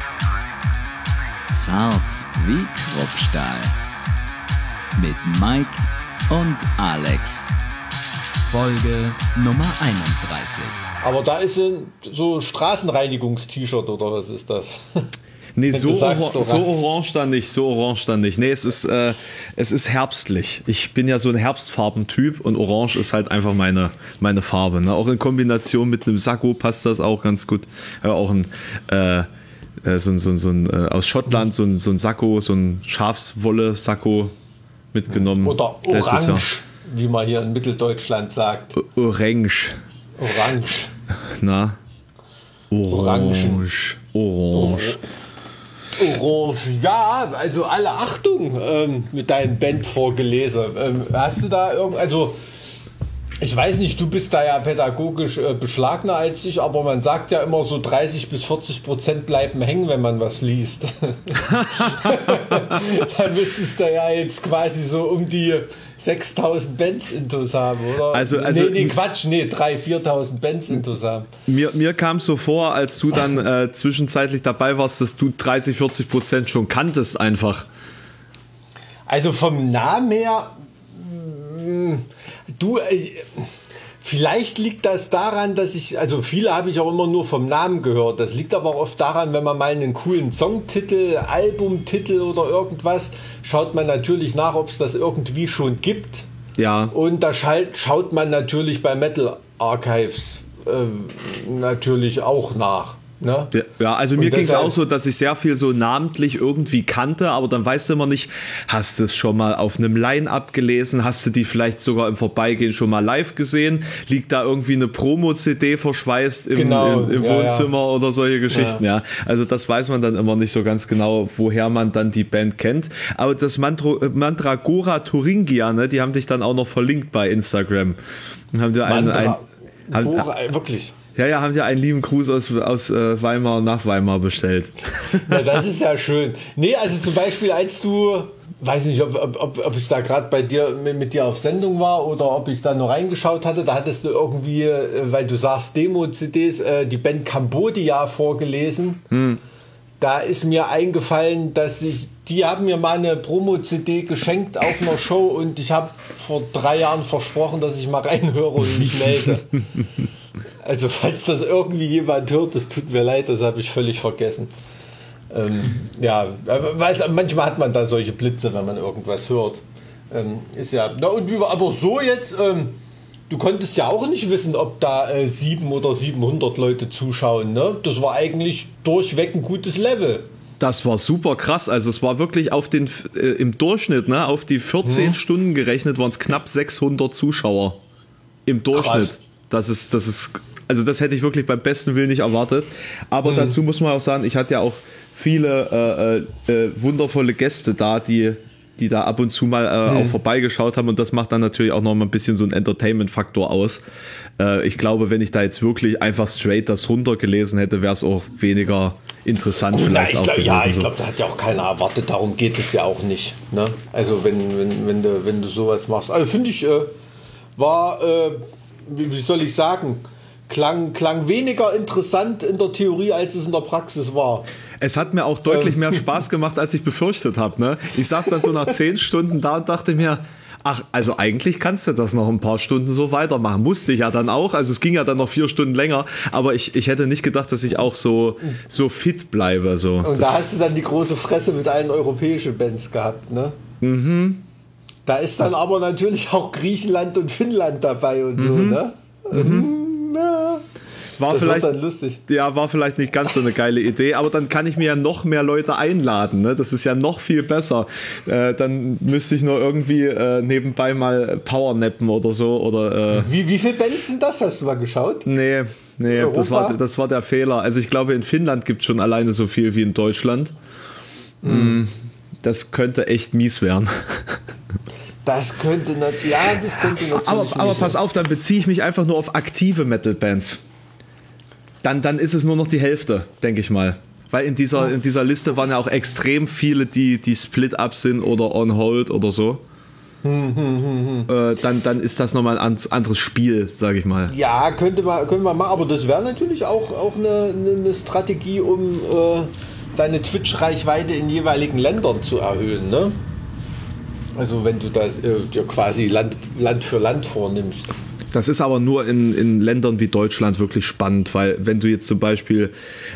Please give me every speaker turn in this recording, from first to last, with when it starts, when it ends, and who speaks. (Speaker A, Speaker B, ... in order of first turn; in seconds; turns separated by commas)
Speaker A: 1.5-3.8, Speaker A: 5.0-7.5, Speaker A: 8.5-10.8, Speaker B: 11.0-15.1, Speaker C: 15.6-29.3, Speaker B: 15.7-16.7, Speaker C: 29.8-34.3, Speaker C: 34.9-36.5, Speaker B: 35.1-38.7, Speaker C: 38.7-39.8, Speaker B: 40.2-40.9, Speaker C: 41.3-41.8, Speaker C: 42.7-45.0, Speaker B: 42.9-43.8, Speaker B: 44.5-45.0, Speaker B: 45.9-52.4, Speaker B: 53.4-71.3, Speaker C: 61.3-62.8, Speaker C: 68.1-69.0, Speaker C: 71.5-77.7, Speaker B: 79.1-96.3, Speaker C: 96.6-96.9, Speaker B: 96.9-103.5, Speaker C: 103.5-128.0, Speaker B: 104.2-104.8, Speaker B: 116.5-117.7, Speaker B: 118.5-118.8, Speaker C: 128.5-129.4, Speaker B: 128.8-130.9, Speaker C: 129.9-130.3, Speaker C: 131.2-135.5, Speaker B: 135.1-149.0, Speaker C: 149.1-149.4, Speaker B: 150.0-159.6, Speaker B: 160.6-164.5, Speaker B: 165.3-172.8, Speaker B: 173.3-180.3, Speaker C: 180.6-187.8, Speaker B: 184.8-185.2, Speaker C: 188.4-203.8, Speaker B: 188.7-189.2, Speaker B: 193.2-193.6, Speaker B: 199.9-200.2, Speaker C: 204.4-210.9, Speaker B: 209.7-216.9, Speaker B: 217.6-224.4, Speaker C: 224.8-240.4, Speaker B: 225.5-226.0, Speaker B: 240.0-243.6, Speaker C: 243.8-244.4, Speaker B: 245.1-250.7, Speaker C: 248.3-249.7, Speaker C: 251.2-251.7, Speaker B: 251.3-252.2, Speaker C: 252.2-263.3, Speaker B: 263.1-265.2, Speaker C: 265.2-270.5, Speaker B: 266.1-266.8, Speaker B: 271.4-271.8, Speaker C: 271.4-274.4, Speaker B: 275.2-278.0, Speaker C: 276.8-280.6, Speaker C: 281.8-289.6, Speaker B: 290.2-291.3, Speaker C: 291.3-294.3, Speaker B: 294.3-303.2, Speaker B: 304.4-307.9, Speaker C: 308.3-312.7